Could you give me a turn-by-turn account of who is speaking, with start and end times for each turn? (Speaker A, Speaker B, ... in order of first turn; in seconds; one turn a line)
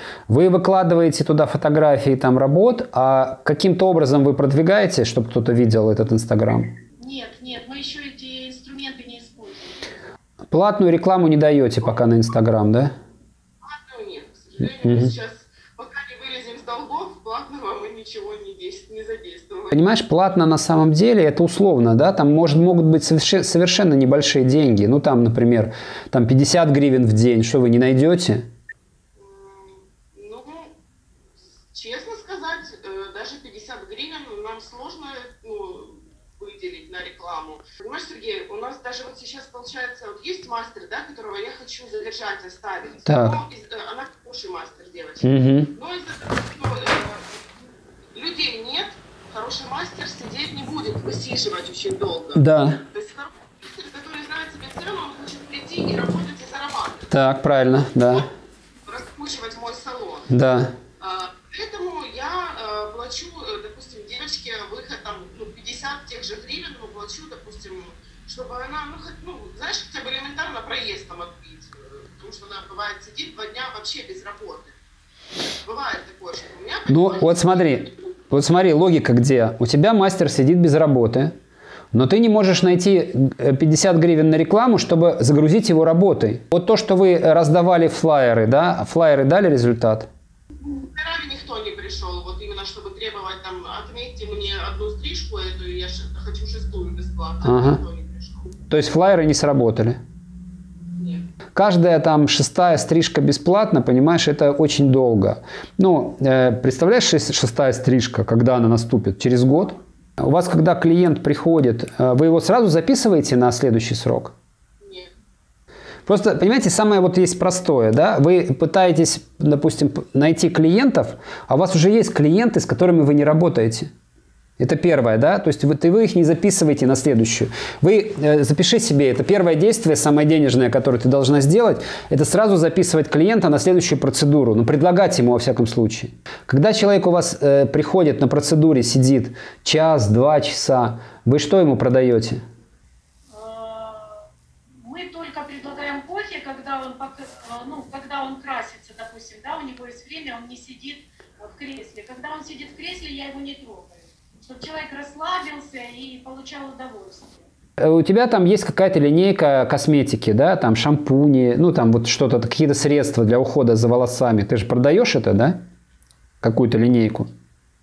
Speaker A: 0.3-6.7
Speaker B: 7.0-9.8
Speaker A: 10.5-12.9
Speaker C: 13.6-19.8
Speaker A: 14.8-15.1
Speaker A: 19.7-28.5
Speaker C: 29.2-30.7
Speaker C: 31.7-47.4
Speaker A: 43.0-43.4
Speaker A: 45.2-45.7
Speaker C: 48.1-57.0
Speaker A: 52.4-52.8
Speaker A: 57.1-58.3
Speaker C: 58.9-60.3
Speaker A: 60.3-60.8
Speaker C: 61.0-74.7
Speaker C: 75.7-78.0
Speaker A: 76.9-81.3
Speaker A: 81.9-90.1
Speaker C: 90.7-98.5
Speaker A: 97.4-97.8
Speaker A: 98.7-100.0
Speaker C: 101.0-101.2
Speaker A: 101.5-114.3
Speaker A: 116.0-123.9
Speaker A: 124.6-142.4
Speaker B: 143.3-144.2
Speaker B: 144.8-157.4
Speaker A: 157.8-165.6
Speaker A: 166.4-167.3